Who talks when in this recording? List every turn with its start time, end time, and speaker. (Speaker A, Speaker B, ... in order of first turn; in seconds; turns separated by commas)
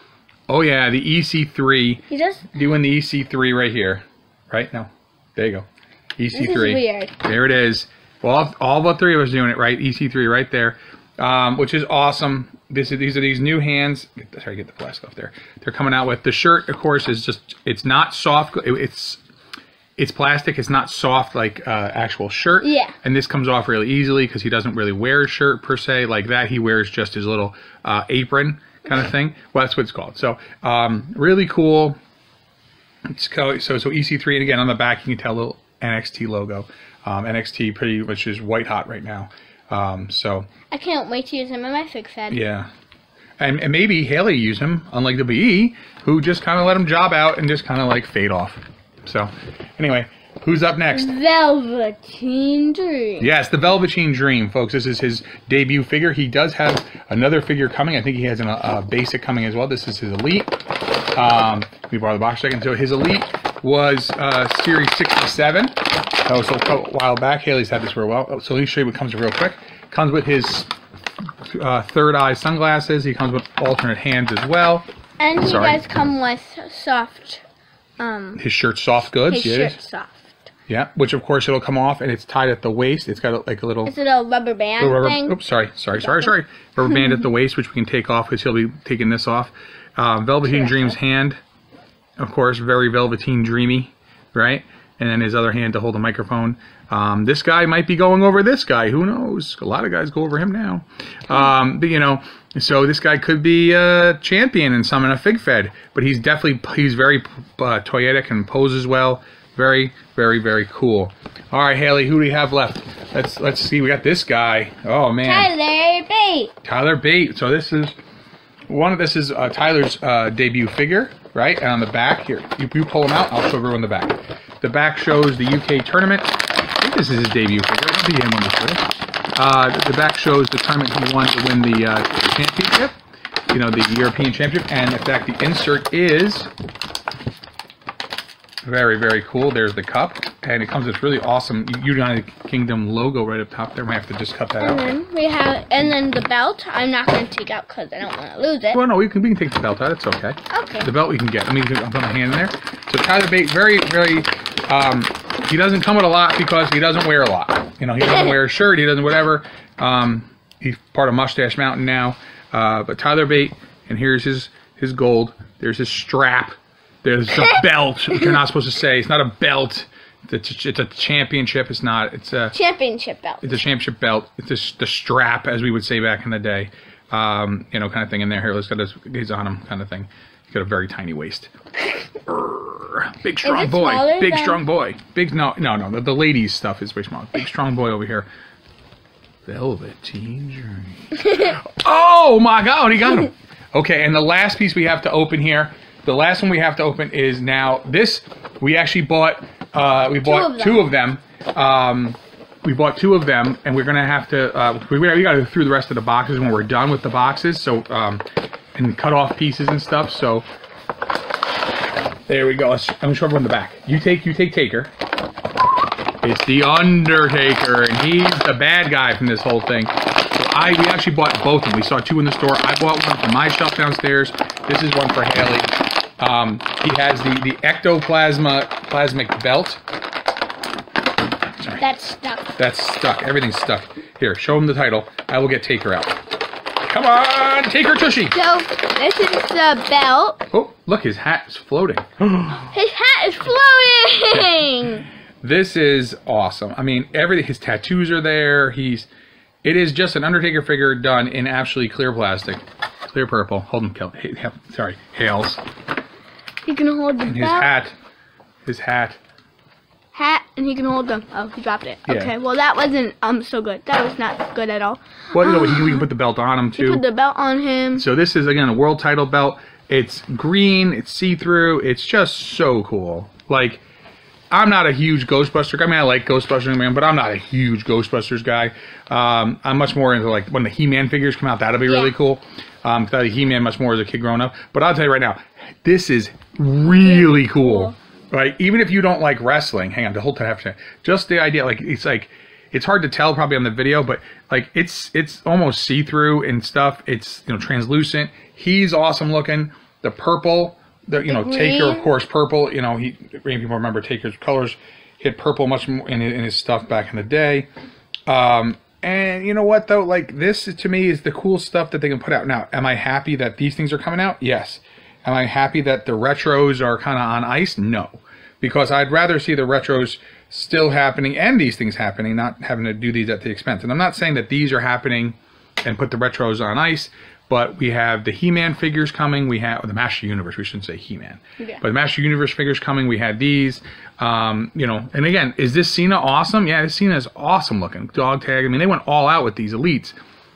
Speaker A: 0.5-2.0, Speaker B: 2.1-2.5, Speaker A: 2.5-5.7, Speaker A: 6.2-19.2, Speaker B: 6.3-7.1, Speaker A: 20.0-32.0, Speaker B: 22.6-22.9, Speaker A: 33.1-40.5, Speaker B: 40.7-42.5, Speaker A: 42.3-42.7, Speaker A: 43.4-51.1, Speaker B: 50.9-53.3, Speaker A: 53.2-60.6, Speaker A: 61.1-70.7, Speaker A: 71.5-74.9, Speaker B: 75.2-77.4, Speaker A: 75.4-75.8, Speaker B: 78.0-78.4, Speaker A: 78.4-79.8, Speaker B: 79.2-80.4, Speaker A: 80.7-83.9, Speaker B: 83.8-85.4, Speaker A: 84.8-91.4, Speaker B: 86.0-86.3, Speaker B: 90.4-91.0, Speaker A: 92.2-115.5, Speaker B: 115.2-116.5, Speaker A: 116.6-118.0, Speaker A: 118.7-132.9, Speaker A: 133.5-136.5, Speaker A: 138.6-144.9, Speaker B: 144.6-148.8, Speaker A: 148.7-172.6, Speaker B: 150.5-150.9, Speaker B: 167.3-167.6, Speaker B: 172.5-173.6, Speaker A: 173.4-181.5, Speaker A: 182.3-188.3, Speaker B: 183.4-184.6, Speaker A: 189.5-208.2, Speaker B: 200.2-200.9, Speaker A: 208.8-210.5, Speaker A: 212.3-214.9, Speaker A: 216.2-229.8, Speaker B: 231.8-232.6, Speaker A: 232.6-236.2, Speaker A: 236.8-238.4, Speaker B: 238.3-240.4, Speaker A: 240.5-242.7, Speaker B: 242.7-245.1, Speaker A: 245.4-249.1, Speaker A: 249.6-255.6, Speaker B: 256.6-257.7, Speaker A: 257.2-257.9, Speaker A: 258.6-259.2, Speaker B: 260.1-266.1, Speaker A: 262.1-262.3, Speaker A: 265.3-267.0, Speaker B: 266.8-268.1, Speaker A: 267.9-273.8, Speaker A: 274.5-307.7, Speaker B: 281.9-282.1, Speaker B: 287.0-287.9, Speaker B: 301.2-302.1, Speaker A: 308.3-340.2